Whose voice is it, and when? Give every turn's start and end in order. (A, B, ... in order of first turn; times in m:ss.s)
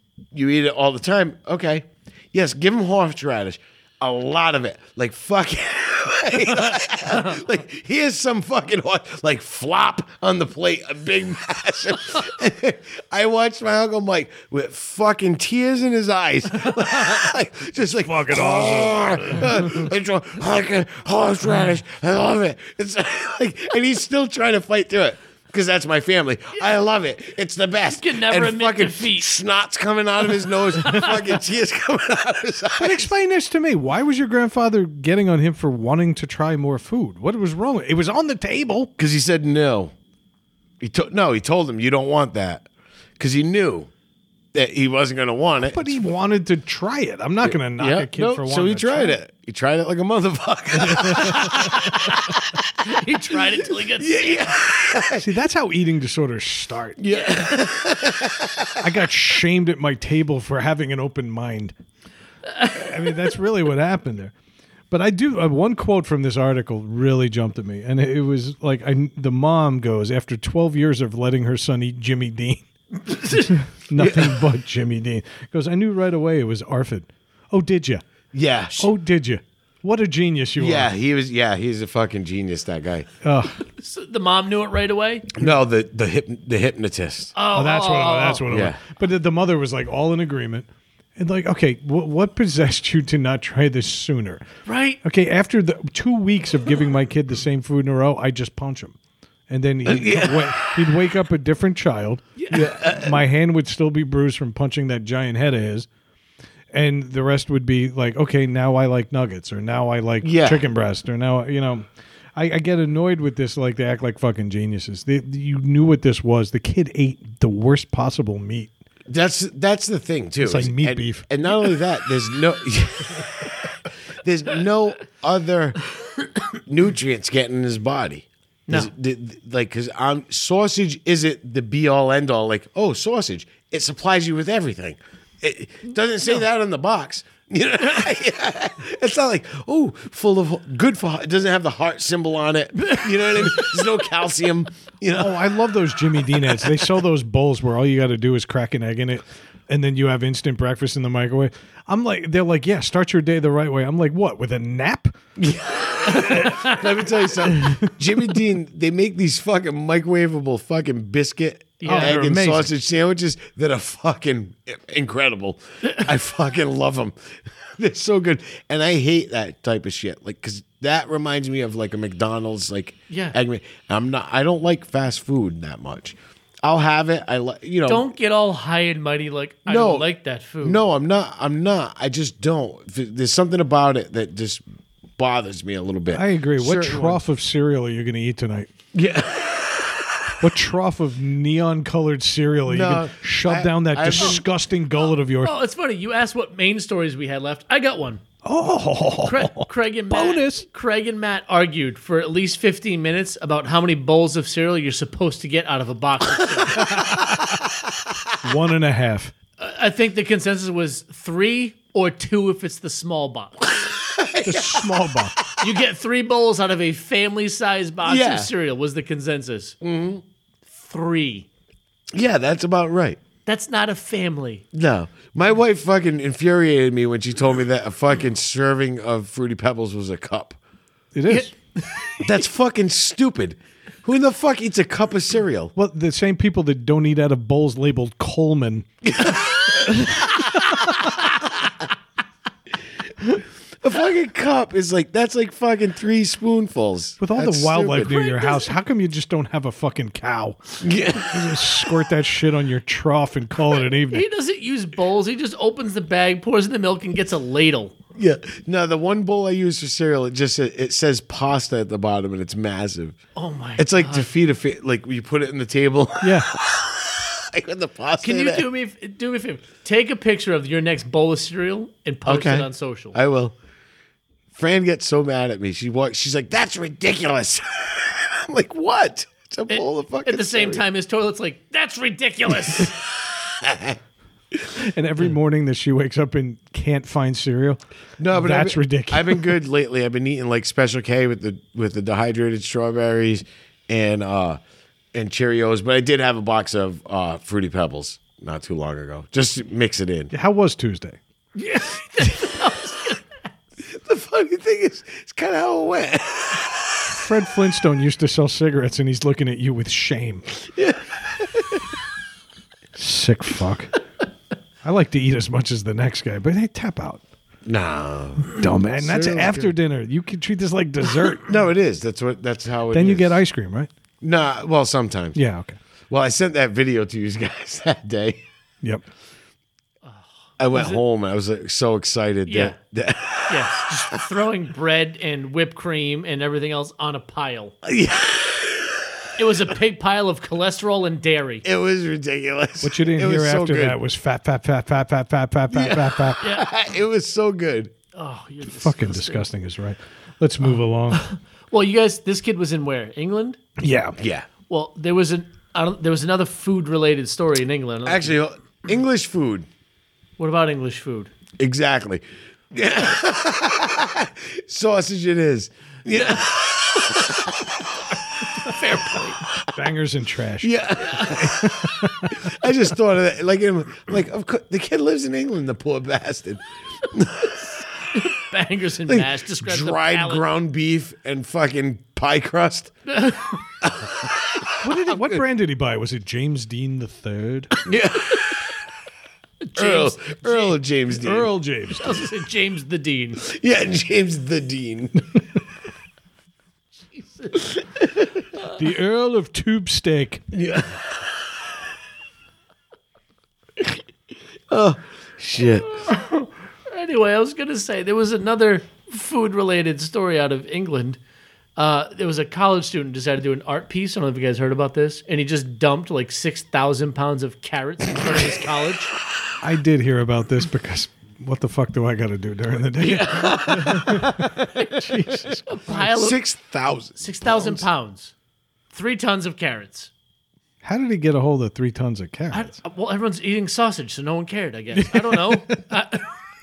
0:00.3-0:33.1 A
0:17.9-0:19.8 B
0:27.9-0:29.3 C
0:30.8-0:31.3 C
0:32.8-0:38.9 B
0:39.0-0:39.9 A
0:40.8-0:42.7 A
0:43.2-0:43.9 A
0:44.5-0:45.9 A
0:45.6-0:49.2 B
0:47.4-0:55.3 A
0:50.8-0:51.7 B
0:51.4-0:52.2 C
0:52.8-0:54.5 C
0:55.1-0:57.0 B
0:57.0-0:58.8 A
0:58.8-1:01.7 B
1:02.6-1:03.2 C
1:02.6-1:04.3 B
1:04.9-1:12.7 B
1:13.1-1:13.5 C
1:13.2-1:18.0 B
1:14.0-1:14.4 A
1:18.3-1:18.9 A
1:18.8-1:20.9 B
1:20.6-1:23.1 A
1:23.2-1:23.6 B
1:23.8-1:25.3 C
1:25.3-1:27.3 A
1:27.4-1:28.4 C
1:27.5-1:34.4 B
1:28.5-1:28.8 A
1:34.6-1:35.0 C
1:35.0-1:39.0 B
1:39.5-1:42.2 B
1:39.8-1:40.9 A
1:42.4-1:42.7 C
1:42.5-1:43.2 A
1:43.0-1:45.9 B
1:46.7-1:58.7 B
1:50.2-1:50.6 A
1:59.1-2:05.8 A
2:00.4-2:01.2 B
2:06.5-2:25.5 A
2:22.8-2:23.8 C
2:25.1-2:35.2 B
2:26.2-2:26.9 A
2:35.4-2:58.1 A
2:36.2-2:36.9 C
2:37.5-2:37.9 B
2:41.8-2:42.2 C
2:41.8-2:42.7 B
2:53.1-2:53.4 C
2:57.9-3:00.8 C
2:59.7-3:00.1 A
3:00.6-3:04.6 A
3:05.2-3:07.2 A
3:06.1-3:08.7 B
3:08.9-3:10.4 A
3:10.4-3:15.5 B
3:12.7-3:14.4 A
3:15.4-3:18.2 C
3:18.4-3:20.6 B
3:19.2-3:27.4 C
3:26.8-3:27.3 A
3:28.4-3:29.3 B
3:29.6-3:33.8 C
3:34.0-3:34.9 A
3:34.4-3:35.4 B
3:35.4-3:35.7 A
3:35.6-3:39.8 C
3:38.0-3:38.5 A
3:39.8-3:40.2 A
3:40.7-3:41.5 C
3:42.1-3:43.2 A
3:43.4-3:44.6 C
3:44.7-3:50.6 A
3:51.1-3:51.5 B
3:51.3-3:52.3 C
3:52.2-3:55.7 A
3:55.7-3:58.9 B
3:59.0-4:00.1 A
3:59.8-4:01.0 B
4:03.2-4:08.3 A
4:07.2-4:14.2 B
4:10.8-4:11.8 A
4:13.9-4:18.0 C
4:18.2-4:23.2 A
4:23.4-4:24.3 C
4:23.8-4:28.6 A
4:26.2-4:26.5 B
4:28.2-4:33.2 C
4:32.2-4:33.6 A
4:34.5-4:40.8 A
4:39.7-4:42.9 C
4:42.5-4:44.0 A
4:44.7-4:47.8 B
4:48.2-4:54.6 A
4:48.3-4:49.5 B
4:55.1-5:00.3 A
5:00.3-5:01.2 B
5:01.6-5:03.4 C
5:03.8-5:07.2 A
5:07.1-5:10.5 B
5:10.7-5:11.9 A
5:12.9-5:13.9 B
5:14.8-5:17.2 B
5:17.6-5:19.7 A
5:18.4-5:21.5 B
5:21.4-5:23.4 A
5:22.9-5:23.9 B
5:24.2-5:25.4 A
5:25.3-5:25.8 B
5:26.1-5:28.4 A
5:30.0-5:31.0 C
5:30.6-5:34.2 A
5:32.5-5:32.8 C
5:33.5-5:37.7 C
5:37.8-5:39.4 A
5:39.4-5:41.6 C
5:41.6-5:44.0 A
5:42.8-5:46.4 B
5:45.7-5:47.9 A
5:46.4-5:46.7 C
5:48.1-5:49.4 C
5:48.6-5:51.3 B
5:51.1-5:53.6 C
5:53.8-5:54.2 B
5:54.2-5:54.5 A
5:54.7-5:58.4 C
5:58.0-5:59.7 A
6:00.4-6:01.3 C
6:01.6-6:07.9 A
6:08.5-6:09.4 C
6:09.7-6:12.5 B
6:10.6-6:17.8 A
6:11.0-6:11.4 C
6:18.1-6:20.4 C
6:19.1-6:22.9 A
6:23.1-6:23.6 C
6:23.8-6:25.4 A
6:24.8-6:27.7 B
6:27.8-6:28.6 A
6:29.6-6:30.8 C
6:29.8-6:31.5 A
6:31.2-6:32.2 B
6:32.0-6:33.4 C
6:33.4-6:35.4 A
6:37.1-6:37.7 C
6:37.6-6:38.3 A
6:38.6-6:40.4 B
6:40.5-6:41.7 A
6:44.7-6:46.1 A
6:46.0-6:51.2 C
6:51.8-6:59.1 C
6:59.6-7:05.7 B
7:03.0-7:04.5 A
7:03.4-7:04.2 C
7:05.7-7:06.4 C
7:05.9-7:07.8 A
7:07.2-7:08.3 C
7:08.9-7:10.1 C
7:10.8-7:12.7 B
7:12.5-7:16.2 C
7:15.0-7:15.8 B